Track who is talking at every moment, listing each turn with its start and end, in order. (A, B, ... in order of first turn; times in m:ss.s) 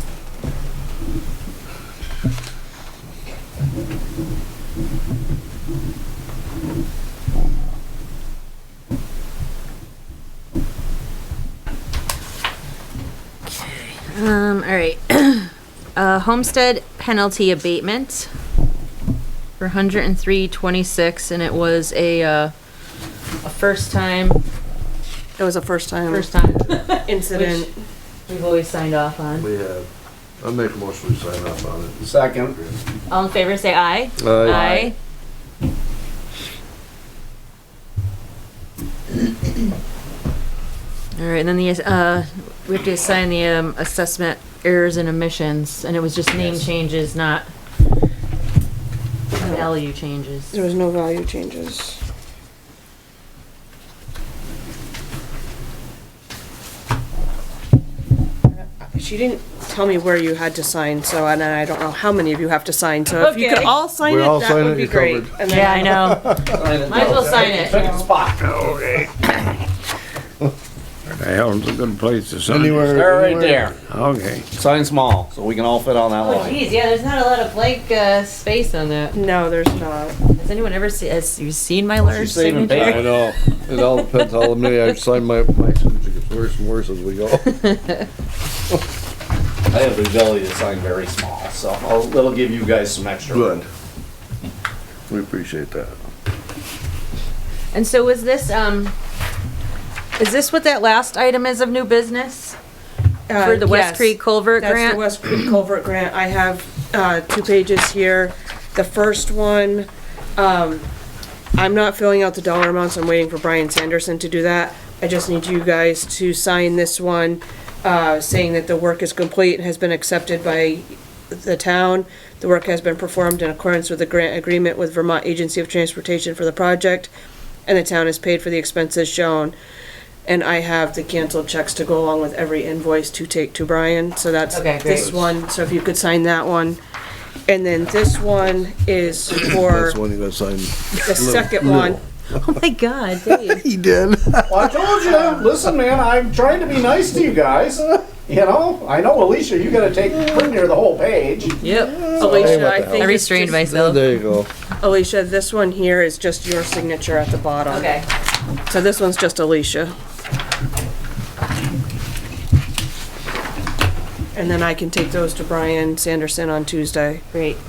0:13.5-0:18.3 A
0:19.6-0:22.5 A
0:23.4-0:24.4 A
0:25.4-0:26.3 B
0:26.1-0:27.7 A
0:27.0-0:27.7 B
0:28.3-0:29.5 A
0:29.4-0:29.9 C
0:30.4-0:32.7 C
0:32.0-0:32.6 D
0:33.1-0:34.9 A
0:34.2-0:34.9 C
0:41.2-0:47.5 A
0:49.4-0:49.7 B
0:49.4-0:50.5 A
0:50.5-0:52.0 B
0:58.9-1:06.3 B
1:03.2-1:03.8 A
1:04.0-1:06.6 C
1:05.4-1:08.0 A
1:06.4-1:09.1 D
1:07.2-1:08.0 B
1:11.1-1:13.0 E
1:12.5-1:13.7 C
1:12.9-1:13.8 D
1:13.9-1:14.5 E
1:14.5-1:16.6 D
1:16.2-1:19.2 A
1:19.1-1:20.2 B
1:20.3-1:24.5 A
1:22.0-1:23.1 D
1:22.7-1:27.6 C
1:29.7-1:33.6 D
1:33.3-1:33.6 C
1:35.1-1:35.9 C
1:37.7-1:38.9 A
1:40.2-1:42.6 A
1:43.3-1:50.8 B
1:43.4-1:45.0 A
1:51.6-2:07.1 B
2:07.6-2:09.5 B
2:10.2-2:16.8 B
2:14.5-2:15.2 A
2:17.5-2:20.0 B
2:19.3-2:22.6 C
2:21.0-2:22.0 B
2:22.4-2:23.6 A
2:23.2-2:25.0 C
2:24.5-2:31.6 D
2:31.6-2:34.1 A
2:31.9-2:34.5 C
2:32.1-2:33.6 B
2:34.8-2:38.0 B
2:37.7-2:38.0 A
2:38.7-2:39.9 B
2:44.3-2:47.2 B
2:47.3-2:47.6 A